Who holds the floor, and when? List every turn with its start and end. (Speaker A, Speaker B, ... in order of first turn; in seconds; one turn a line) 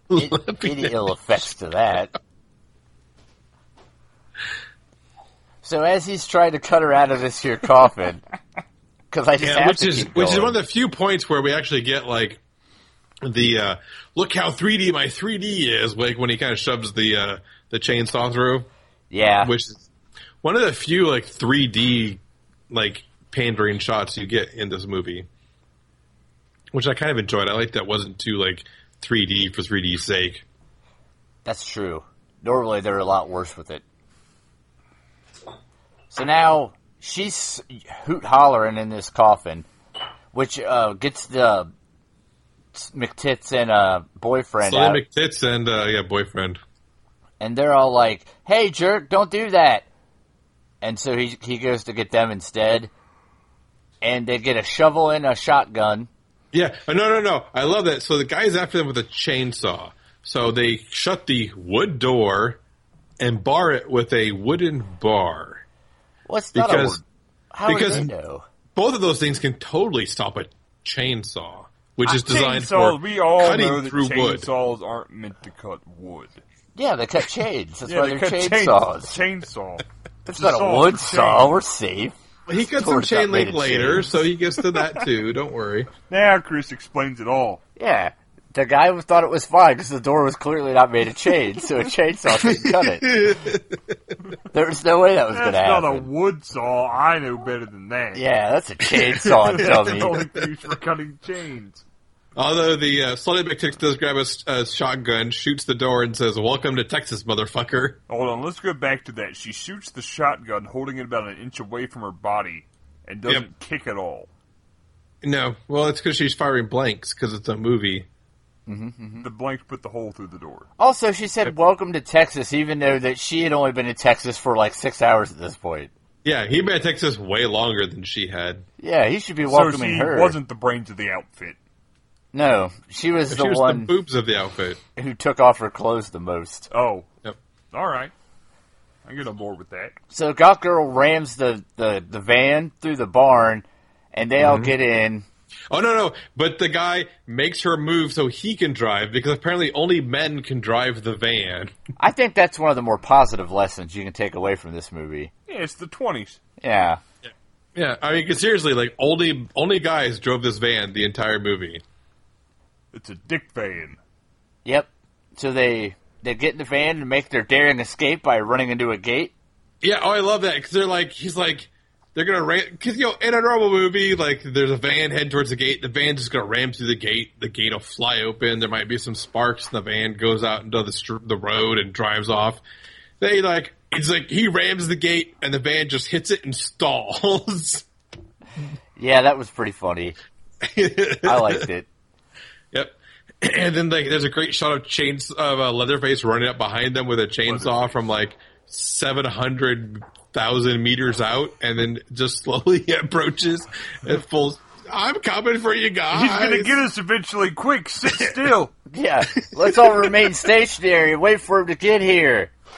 Speaker A: 0.1-1.0
Speaker B: 0.1-2.1
Speaker B: 5.6-8.2
Speaker B: 9.1-10.6
Speaker A: 9.4-12.4
Speaker A: 13.2-18.7
Speaker B: 19.1-19.5
Speaker A: 19.4-19.9
Speaker A: 20.4-25.3
Speaker A: 26.7-30.4
Speaker B: 31.4-33.8
Speaker B: 36.1-39.7
Speaker B: 40.3-41.7
Speaker B: 42.7-45.0
Speaker A: 44.6-46.6
Speaker B: 47.4-49.9
Speaker B: 50.8-52.9
Speaker B: 54.0-56.1
Speaker A: 56.5-62.6
Speaker A: 63.2-65.6
Speaker B: 66.3-68.4
Speaker A: 66.5-67.0
Speaker A: 67.7-68.1
Speaker A: 68.7-74.5
Speaker C: 72.0-76.4
Speaker B: 76.8-79.2
Speaker C: 77.9-81.5
Speaker B: 80.2-82.2
Speaker A: 82.5-85.9
Speaker B: 82.7-84.1
Speaker C: 86.1-87.6
Speaker B: 87.8-93.3
Speaker A: 92.4-94.2
Speaker B: 94.5-96.1
Speaker C: 95.3-98.2
Speaker B: 98.1-100.2
Speaker A: 98.9-100.4
Speaker C: 99.5-101.8
Speaker A: 102.4-108.0
Speaker C: 108.1-114.3
Speaker A: 115.2-118.1
Speaker B: 118.7-119.2
Speaker C: 119.2-120.7
Speaker B: 120.8-125.9
Speaker A: 126.2-128.7
Speaker B: 128.8-130.4
Speaker C: 129.4-131.6
Speaker B: 132.3-133.9
Speaker A: 133.3-134.8
Speaker B: 134.9-136.7
Speaker C: 136.7-137.1
Speaker C: 137.7-138.1
Speaker C: 139.1-139.9
Speaker B: 140.1-145.2
Speaker A: 144.4-144.7
Speaker A: 145.7-151.7
Speaker B: 152.0-155.3
Speaker C: 155.5-156.4
Speaker B: 156.6-157.0
Speaker A: 157.2-161.8
Speaker C: 162.9-164.0
Speaker B: 164.6-169.3
Speaker A: 169.8-182.6
Speaker A: 183.2-187.9
Speaker B: 189.0-190.2
Speaker A: 190.6-191.7
Speaker B: 191.2-191.9
Speaker A: 192.7-206.8
Speaker C: 197.4-197.9
Speaker C: 206.1-208.7
Speaker A: 208.1-208.3
Speaker B: 208.9-212.5
Speaker A: 209.4-210.3